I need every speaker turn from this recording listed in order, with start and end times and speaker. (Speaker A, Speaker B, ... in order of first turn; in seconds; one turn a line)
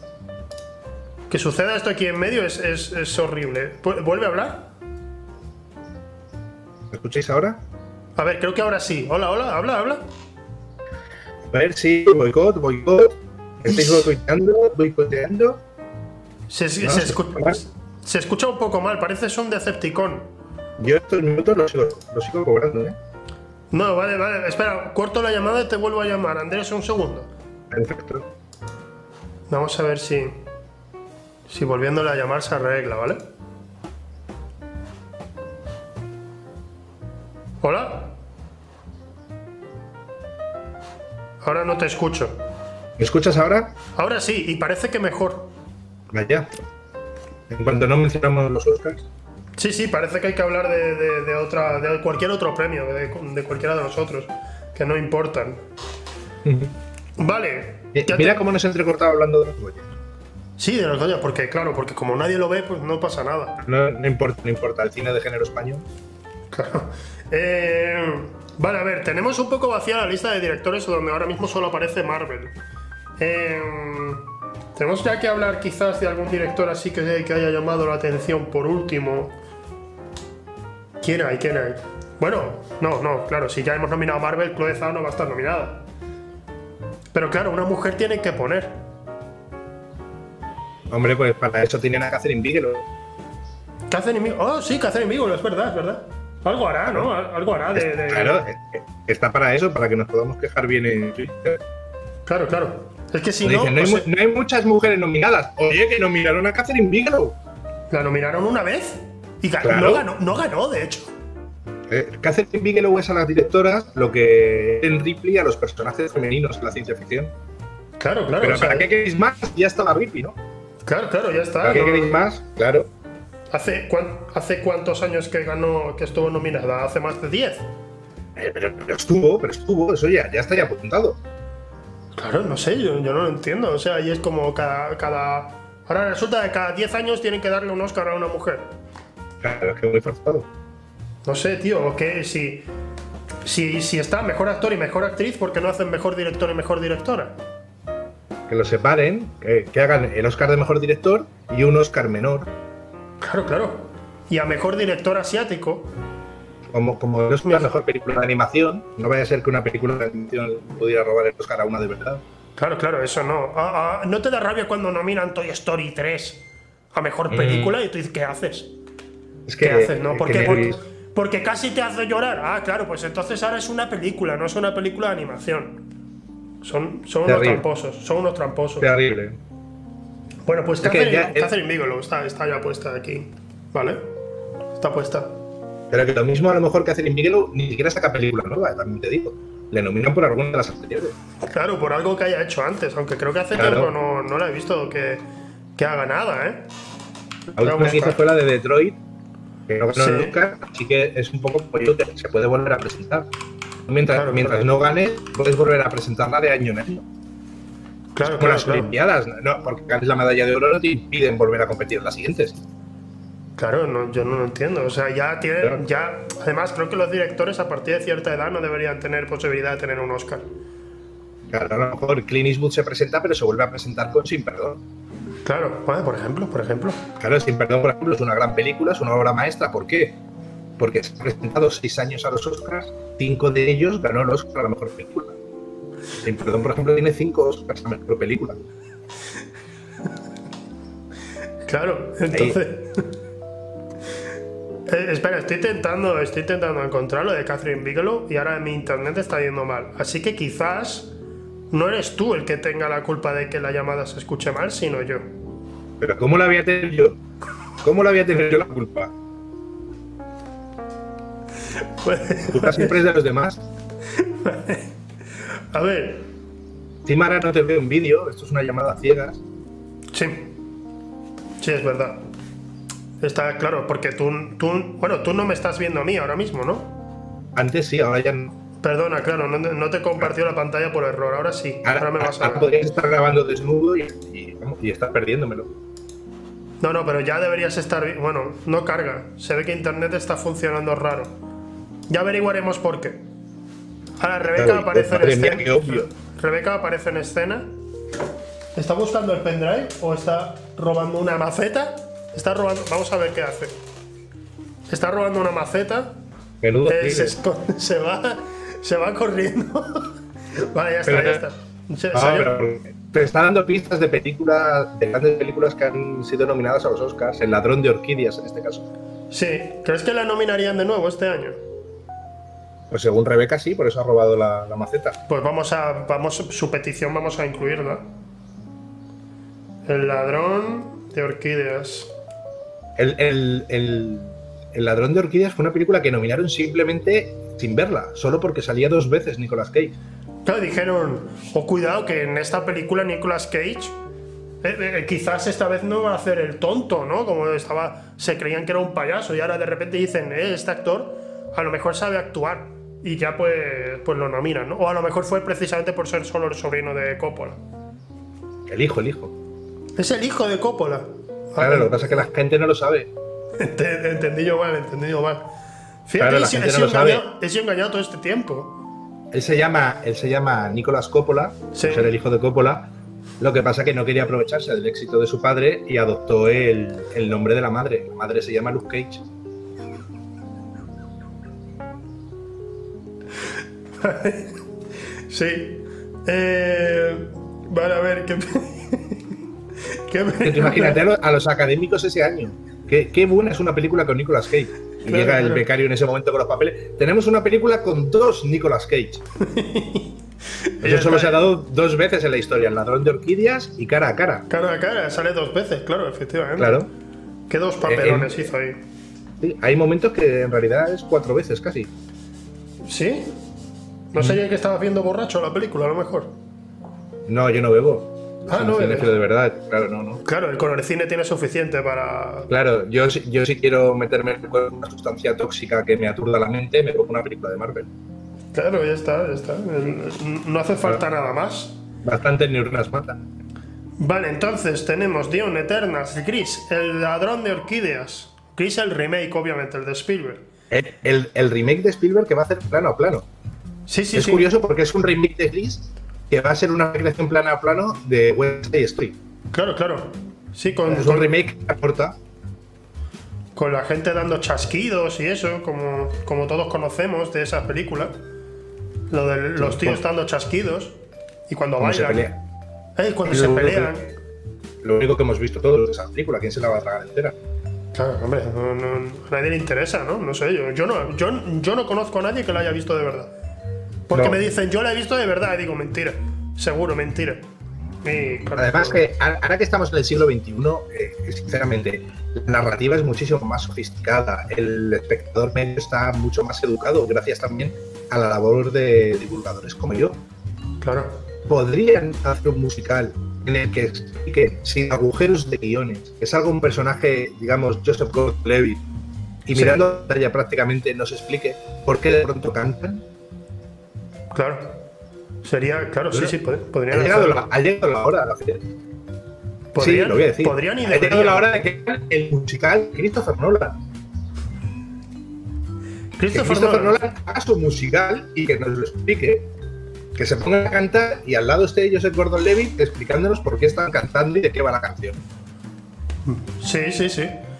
Speaker A: 1.3-4.7
Speaker B: 6.9-7.6
Speaker A: 8.2-10.0
Speaker B: 11.5-15.6
Speaker A: 13.7-14.1
Speaker A: 16.5-20.3
Speaker B: 16.8-17.6
Speaker B: 20.8-23.0
Speaker A: 23.7-27.3
Speaker B: 27.7-28.3
Speaker A: 29.5-30.4
Speaker A: 31.5-33.2
Speaker A: 37.6-38.1
Speaker A: 41.4-42.4
Speaker B: 43.0-43.7
Speaker A: 44.0-45.5
Speaker B: 46.1-46.5
Speaker B: 47.5-49.0
Speaker A: 49.6-55.6
Speaker B: 56.4-56.8
Speaker A: 57.2-58.4
Speaker B: 57.9-59.9
Speaker A: 60.6-63.6
Speaker B: 63.6-65.8
Speaker A: 66.5-72.5
Speaker A: 73.2-79.3
Speaker A: 81.0-85.8
Speaker A: 87.1-88.8
Speaker B: 90.9-92.9
Speaker A: 93.9-98.5
Speaker B: 97.7-101.6
Speaker A: 102.3-104.1
Speaker B: 103.4-107.4
Speaker A: 107.9-111.1
Speaker B: 109.6-110.1
Speaker B: 111.9-117.3
Speaker A: 118.0-118.9
Speaker B: 118.4-120.4
Speaker A: 120.9-122.2
Speaker B: 121.6-122.9
Speaker A: 123.5-127.7
Speaker B: 128.4-131.2
Speaker A: 132.2-138.7
Speaker B: 139.4-140.5
Speaker A: 141.2-142.7
Speaker A: 143.4-147.4
Speaker B: 148.5-152.5
Speaker A: 153.2-155.9
Speaker B: 156.7-162.2
Speaker A: 157.5-157.7
Speaker A: 162.6-168.7
Speaker B: 167.3-167.7
Speaker B: 169.5-170.8
Speaker A: 169.6-175.8
Speaker A: 176.6-178.9
Speaker B: 177.3-177.7
Speaker B: 178.8-179.4
Speaker A: 180.5-184.0
Speaker B: 180.8-181.5
Speaker A: 184.8-185.3
Speaker B: 185.9-191.2
Speaker A: 191.5-195.2
Speaker B: 193.6-193.9
Speaker A: 195.8-196.7
Speaker B: 197.5-199.0
Speaker A: 197.6-198.2
Speaker B: 199.7-203.3
Speaker A: 199.9-200.4
Speaker B: 203.9-207.1
Speaker A: 204.1-204.6
Speaker A: 208.2-208.9
Speaker B: 208.2-212.6
Speaker A: 213.6-220.5
Speaker B: 221.5-224.8
Speaker A: 225.4-227.0
Speaker B: 227.2-230.2
Speaker B: 230.8-235.4
Speaker B: 236.2-238.6
Speaker A: 241.7-243.1
Speaker B: 242.3-242.6
Speaker A: 244.9-251.1
Speaker A: 251.7-255.3
Speaker B: 256.0-257.2
Speaker B: 257.8-259.1
Speaker A: 262.0-263.0
Speaker B: 262.5-263.6
Speaker A: 264.1-264.9
Speaker A: 265.6-266.3
Speaker B: 267.1-269.4
Speaker A: 270.1-270.5
Speaker A: 271.6-272.2
Speaker A: 273.2-276.9
Speaker B: 277.6-278.6
Speaker A: 278.8-282.7
Speaker B: 281.8-285.7
Speaker A: 286.8-291.3
Speaker A: 292.1-293.2
Speaker A: 294.2-297.7
Speaker B: 294.4-296.1
Speaker A: 298.8-303.8
Speaker A: 304.9-306.2
Speaker B: 306.6-307.4
Speaker A: 306.9-312.5
Speaker B: 311.1-311.4
Speaker B: 312.1-318.9
Speaker A: 319.3-321.6
Speaker B: 322.9-325.2
Speaker A: 325.3-328.1
Speaker A: 329.9-332.1
Speaker B: 333.0-340.0
Speaker A: 340.4-344.0
Speaker A: 344.6-357.6
Speaker B: 358.7-359.3
Speaker A: 360.0-362.2
Speaker B: 361.6-363.1
Speaker A: 363.6-365.5
Speaker A: 366.1-368.8
Speaker B: 366.2-367.2
Speaker B: 369.3-379.2
Speaker A: 371.7-372.1
Speaker A: 384.0-384.6
Speaker A: 385.3-389.2
Speaker A: 389.9-391.0
Speaker B: 390.4-399.2
Speaker A: 395.1-395.6
Speaker A: 399.4-401.4
Speaker B: 400.8-404.5
Speaker A: 404.5-406.8
Speaker B: 406.6-406.9
Speaker A: 407.5-408.8
Speaker B: 407.8-408.5
Speaker B: 409.4-411.9
Speaker A: 412.8-413.3
Speaker A: 414.1-416.4
Speaker B: 417.3-420.2
Speaker A: 418.5-419.1
Speaker A: 420.2-422.5
Speaker B: 422.5-427.9
Speaker A: 428.5-431.8
Speaker B: 432.0-433.2
Speaker A: 434.0-440.4
Speaker B: 440.7-443.3
Speaker A: 443.9-444.5
Speaker B: 444.1-449.2
Speaker A: 449.5-451.3
Speaker B: 450.9-452.2
Speaker A: 453.6-458.1
Speaker A: 459.1-462.3
Speaker B: 459.6-460.0
Speaker B: 461.8-462.4
Speaker A: 463.0-464.1
Speaker B: 463.3-464.1
Speaker B: 464.8-467.4
Speaker A: 467.9-473.3
Speaker A: 474.1-477.4
Speaker B: 474.1-474.4
Speaker A: 478.0-479.1
Speaker B: 478.6-490.2
Speaker A: 490.8-491.2
Speaker B: 491.5-498.8
Speaker B: 499.5-503.1
Speaker A: 499.5-499.8
Speaker A: 504.3-504.8
Speaker A: 505.4-507.4
Speaker B: 506.9-508.7
Speaker A: 509.7-511.6
Speaker B: 509.8-513.8
Speaker A: 516.2-517.0
Speaker B: 516.3-519.5
Speaker B: 520.2-525.2
Speaker A: 526.2-527.4